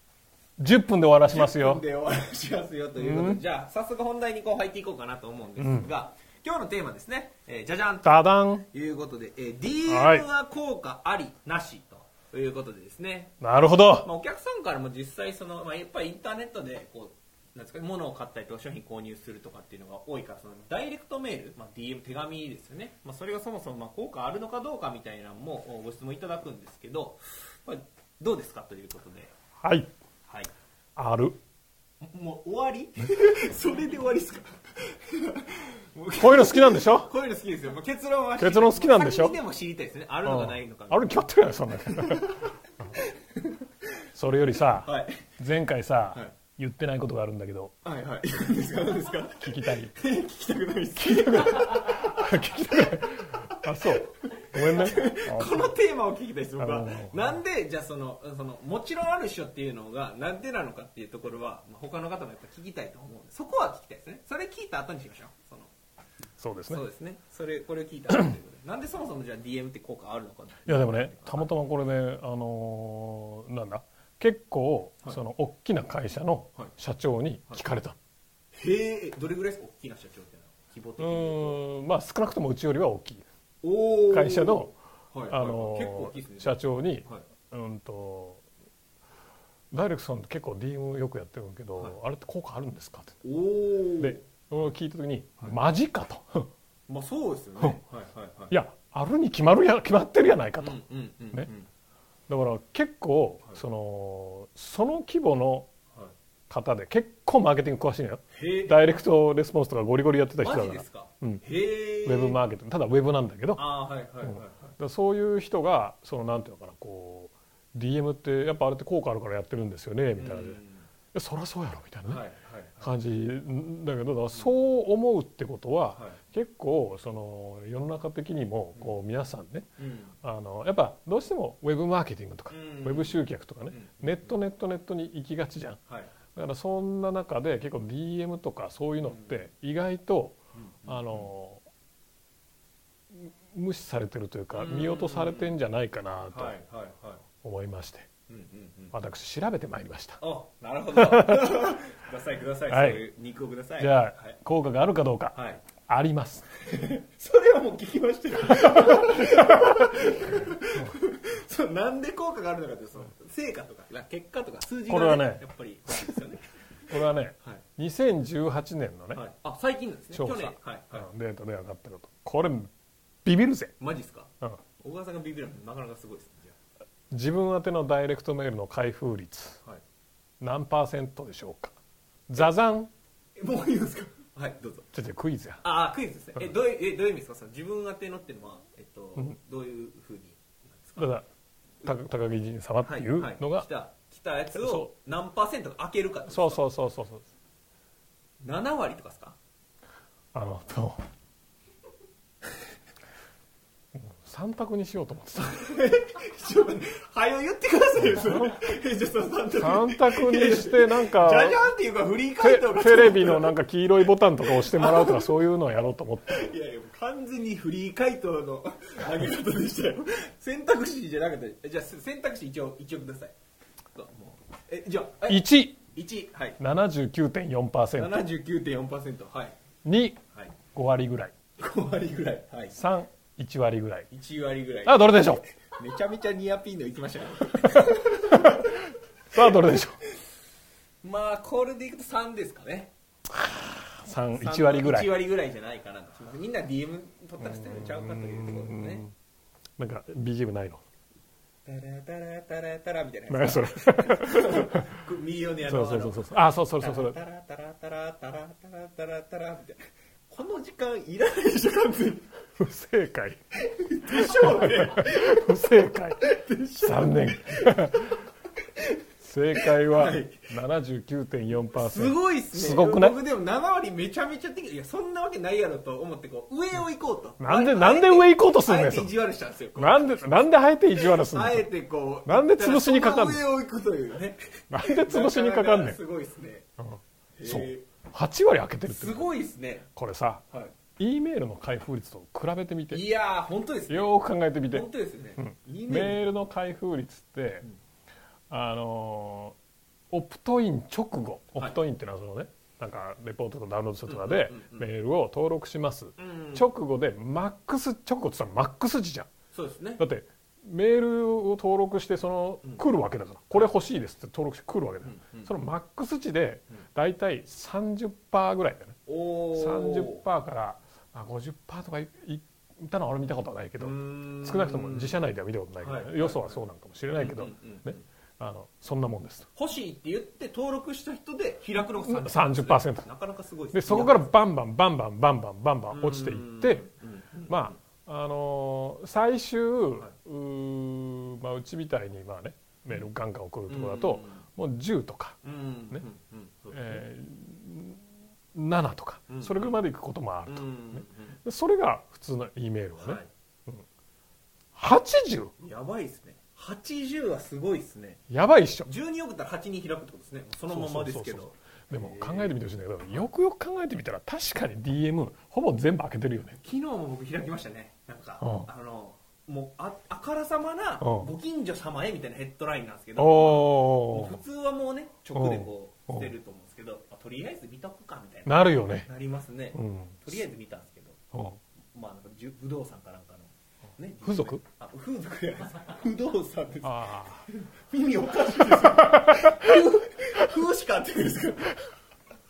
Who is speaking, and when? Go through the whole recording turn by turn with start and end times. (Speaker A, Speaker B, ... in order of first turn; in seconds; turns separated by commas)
Speaker A: 0.6-1.8, Speaker B: 1.3-8.2, Speaker A: 3.0-3.4, Speaker A: 5.6-5.9, Speaker A: 8.0-8.7, Speaker B: 8.7-13.4, Speaker A: 9.9-10.3, Speaker A: 13.4-14.1, Speaker B: 14.0-29.3, Speaker A: 29.6-29.9, Speaker B: 30.3-30.5, Speaker A: 31.0-31.4, Speaker B: 32.0-41.2, Speaker A: 36.2-37.1, Speaker A: 38.4-39.4, Speaker A: 40.2-42.3, Speaker B: 41.8-43.7, Speaker A: 44.1-47.7, Speaker B: 44.6-45.4, Speaker B: 47.8-65.7, Speaker A: 49.4-49.9, Speaker A: 51.0-55.7, Speaker A: 56.6-57.4, Speaker A: 66.4-66.8, Speaker B: 66.7-71.5, Speaker A: 70.7-78.0, Speaker B: 78.5-81.6, Speaker A: 81.0-83.2, Speaker B: 83.6-87.2, Speaker A: 84.1-84.7, Speaker A: 85.3-88.4, Speaker A: 89.7-93.2, Speaker B: 93.2-94.2, Speaker A: 94.0-96.5, Speaker B: 96.9-98.6, Speaker A: 98.5-100.8, Speaker B: 100.6-101.7, Speaker A: 102.3-105.7, Speaker A: 106.5-111.4, Speaker B: 108.3-108.9, Speaker B: 110.4-112.4, Speaker A: 112.0-113.7, Speaker B: 113.6-114.8, Speaker A: 114.2-120.6, Speaker B: 120.2-120.9, Speaker A: 121.1-122.3, Speaker B: 122.1-122.9, Speaker A: 122.8-129.7, Speaker B: 129.8-130.1, Speaker A: 130.2-135.8, Speaker B: 132.5-134.4, Speaker A: 136.3-141.6, Speaker B: 139.1-139.4, Speaker B: 140.6-141.3, Speaker A: 143.1-146.6, Speaker B: 144.5-145.6, Speaker B: 146.3-147.2, Speaker A: 147.4-148.1, Speaker B: 148.3-149.0, Speaker A: 148.9-150.2, Speaker B: 150.2-154.4, Speaker A: 150.9-151.7, Speaker A: 152.7-153.0, Speaker A: 153.8-156.5, Speaker B: 155.3-155.7, Speaker B: 156.6-166.4, Speaker A: 158.6-161.0, Speaker A: 164.9-165.4, Speaker A: 166.9-169.2, Speaker B: 169.1-171.1, Speaker A: 170.1-172.7, Speaker A: 173.2-173.7, Speaker B: 173.8-176.6, Speaker A: 177.1-179.6, Speaker A: 180.4-181.8, Speaker A: 182.3-182.9, Speaker B: 183.4-184.9, Speaker A: 184.9-185.6, Speaker B: 185.6-191.2, Speaker A: 191.0-191.3, Speaker A: 191.8-193.7, Speaker B: 192.8-196.7, Speaker A: 194.5-194.9, Speaker A: 196.3-197.3, Speaker B: 198.4-199.4, Speaker A: 200.3-201.0, Speaker A: 203.9-205.6, Speaker B: 205.4-213.5, Speaker A: 208.1-208.7, Speaker A: 209.6-211.7, Speaker A: 212.4-216.5, Speaker B: 214.4-215.3, Speaker B: 216.3-223.3, Speaker B: 223.9-226.6, Speaker A: 225.3-225.8, Speaker A: 226.6-228.2, Speaker B: 227.9-229.6, Speaker A: 229.8-230.2, Speaker A: 230.7-231.3, Speaker B: 231.6-232.8, Speaker A: 232.7-234.1, Speaker B: 234.1-239.5, Speaker A: 234.8-235.4, Speaker A: 237.8-238.8, Speaker A: 239.3-240.0, Speaker B: 241.0-242.9, Speaker A: 243.3-245.1, Speaker B: 244.3-249.1, Speaker A: 247.4-249.1, Speaker A: 249.8-250.8, Speaker B: 251.7-262.3, Speaker A: 253.3-255.0, Speaker A: 255.7-257.2, Speaker A: 262.6-263.4, Speaker B: 263.6-269.0, Speaker A: 264.1-266.3, Speaker A: 266.8-268.2, Speaker A: 269.2-273.2, Speaker B: 269.6-270.5, Speaker B: 271.7-286.7, Speaker A: 277.4-279.1, Speaker A: 279.8-281.7, Speaker A: 282.3-283.4, Speaker A: 284.7-286.0, Speaker A: 286.8-289.3, Speaker B: 287.4-287.9, Speaker B: 288.9-289.9, Speaker A: 289.9-290.4, Speaker A: 291.0-293.1, Speaker B: 292.9-294.1, Speaker A: 293.9-297.7, Speaker B: 294.7-296.2, Speaker A: 298.5-299.6, Speaker A: 300.1-309.3, Speaker B: 304.1-304.9, Speaker B: 306.2-306.7, Speaker B: 309.5-310.0, Speaker A: 310.0-319.0, Speaker B: 315.1-315.5, Speaker B: 319.1-320.2, Speaker A: 319.5-329.5, Speaker B: 323.8-325.2, Speaker B: 325.8-326.6, Speaker B: 327.1-328.0, Speaker B: 329.6-334.3, Speaker A: 332.0-333.1, Speaker A: 333.7-336.9, Speaker B: 335.9-337.8, Speaker A: 337.5-345.4, Speaker B: 343.7-344.5, Speaker B: 345.4-347.1, Speaker A: 346.7-348.0, Speaker A: 348.5-353.8, Speaker B: 349.3-349.8, Speaker B: 350.5-351.4, Speaker B: 353.0-353.3, Speaker A: 354.8-355.5, Speaker B: 355.6-358.2, Speaker A: 358.3-358.9, Speaker B: 358.9-362.6, Speaker A: 360.7-366.6, Speaker B: 366.6-381.2, Speaker A: 368.4-368.7, Speaker A: 371.0-371.3, Speaker A: 373.2-374.4, Speaker A: 375.4-376.3, Speaker A: 378.5-379.1, Speaker A: 379.8-380.2, Speaker A: 381.3-381.6, Speaker B: 381.9-391.8, Speaker A: 384.2-384.6, Speaker A: 386.8-387.5, Speaker A: 388.6-389.9